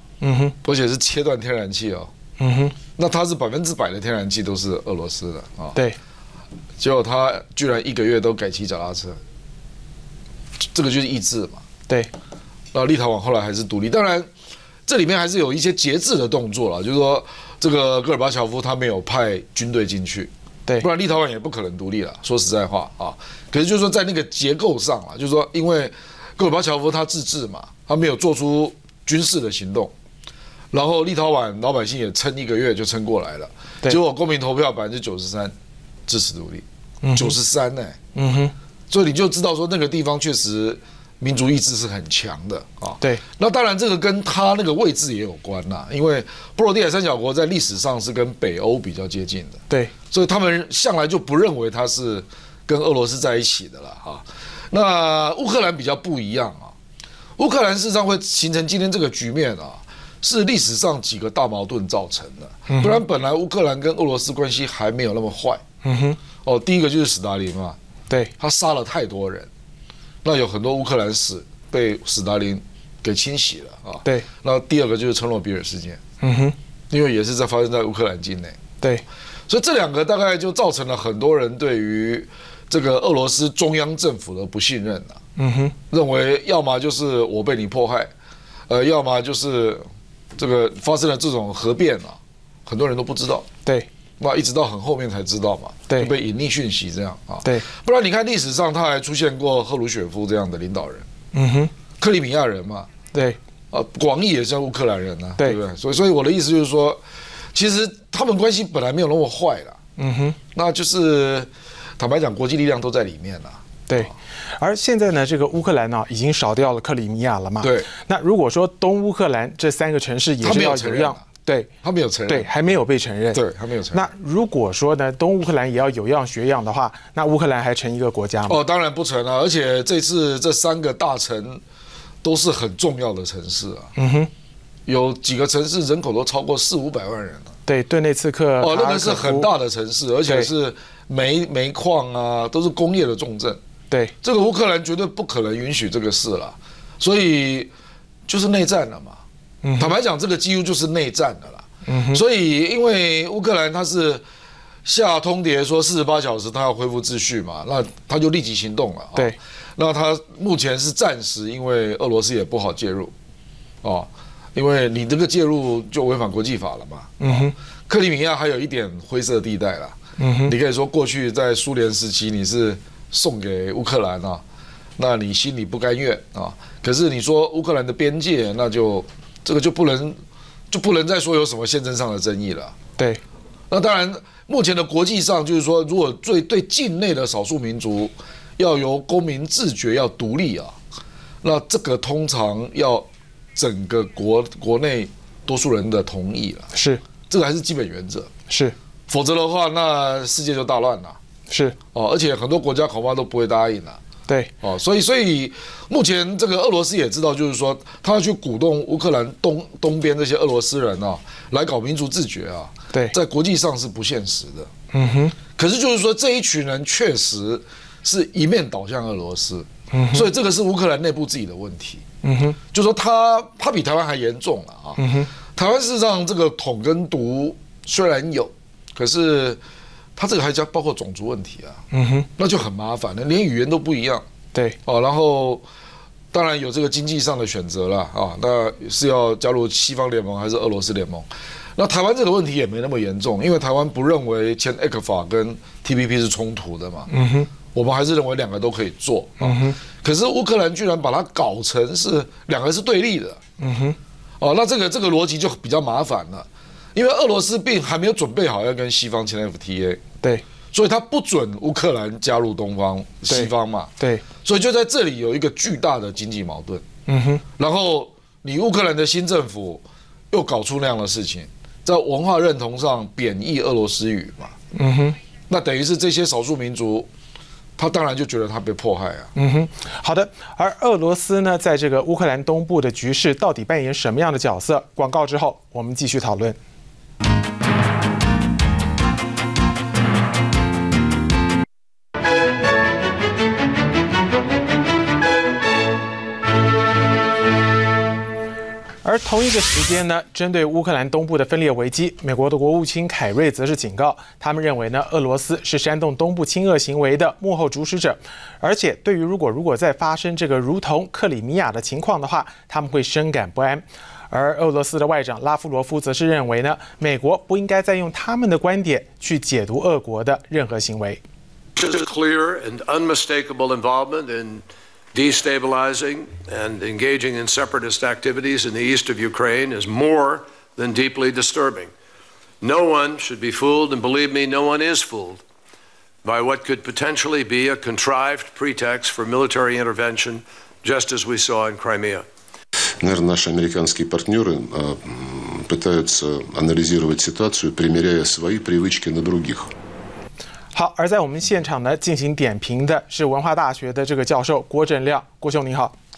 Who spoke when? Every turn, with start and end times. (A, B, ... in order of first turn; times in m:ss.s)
0:00.2-0:00.5 A
0:00.6-0:02.1 B
0:02.4-0:02.8 A
0:03.0-0:05.8 B
0:06.8-0:09.2 B
0:10.7-0:11.6 B
0:12.7-0:14.3 B
0:14.8-0:29.9 B
0:30.7-0:35.5 B
0:36.1-0:36.6 B
0:37.0-0:37.3 A
0:37.1-0:38.0 B
0:38.1-0:38.5 A
0:38.9-0:56.7 B
0:57.4-1:05.6 B
1:02.7-1:03.0 A
1:05.8-1:06.2 A
1:06.4-1:07.8 B
1:08.4-1:09.5 B
1:10.2-1:16.0 B
1:16.2-1:16.6 A
1:16.9-1:18.6 B
1:19.5-1:25.2 B
1:25.4-1:25.7 A
1:25.9-1:28.1 B
1:28.7-1:29.8 B
1:30.4-1:33.5 B
1:34.2-1:41.0 B
1:41.3-1:41.7 A
1:42.0-1:42.9 B
1:43.1-1:43.4 A
1:43.7-1:47.0 B
1:47.5-1:49.8 B
1:50.0-1:50.4 A
1:50.5-1:54.1 B
1:53.9-2:01.7 A
1:57.6-1:57.9 B
2:00.4-2:01.2 B
2:01.8-2:02.5 B
2:02.3-2:03.4 A
2:03.3-2:04.1 B
2:03.9-2:08.6 A
2:08.5-2:11.6 B
2:12.2-2:13.9 B
2:14.0-2:14.3 A
2:14.8-2:17.5 B
2:17.7-2:19.5 A
2:18.6-2:23.6 B
2:24.2-2:27.7 B
2:28.3-2:29.2 B
2:29.6-2:29.9 A
2:29.8-2:34.2 B
2:31.8-2:32.2 A
2:34.8-2:43.1 B
2:43.8-2:54.4 B
2:47.2-2:47.5 A
2:50.2-2:50.5 A
2:55.0-3:02.8 B
3:03.7-3:10.8 B
3:11.4-3:16.7 B
3:16.7-3:17.0 A
3:17.3-3:18.3 B
3:18.5-3:18.8 A
3:19.1-3:21.2 B
3:21.5-3:21.8 A
3:21.9-3:24.0 B
3:24.6-3:34.7 B
3:34.9-3:35.4 A
3:35.6-3:42.0 B
3:39.9-3:40.3 A
3:42.2-3:42.6 A
3:42.7-3:45.0 B
3:45.0-3:45.3 A
3:45.5-3:49.6 B
3:50.2-3:51.8 B
3:51.9-3:52.3 A
3:52.4-3:54.2 B
3:54.8-3:55.6 B
3:56.3-4:07.1 B
4:07.1-4:07.5 A
4:07.7-4:13.4 B
4:09.4-4:09.8 A
4:13.6-4:14.0 A
4:14.4-4:20.0 B
4:20.7-4:23.9 B
4:23.3-4:24.2 A
4:24.4-4:26.8 B
4:27.1-4:27.4 A
4:27.6-4:34.5 B
4:34.7-4:35.2 A
4:35.5-4:37.1 B
4:37.8-4:39.3 B
4:39.3-4:46.6 A
4:59.0-5:21.2 A
5:21.8-5:31.9 C
5:32.6-5:35.4 C
5:36.2-5:42.2 C
5:43.0-5:49.7 D
5:50.7-5:55.9 A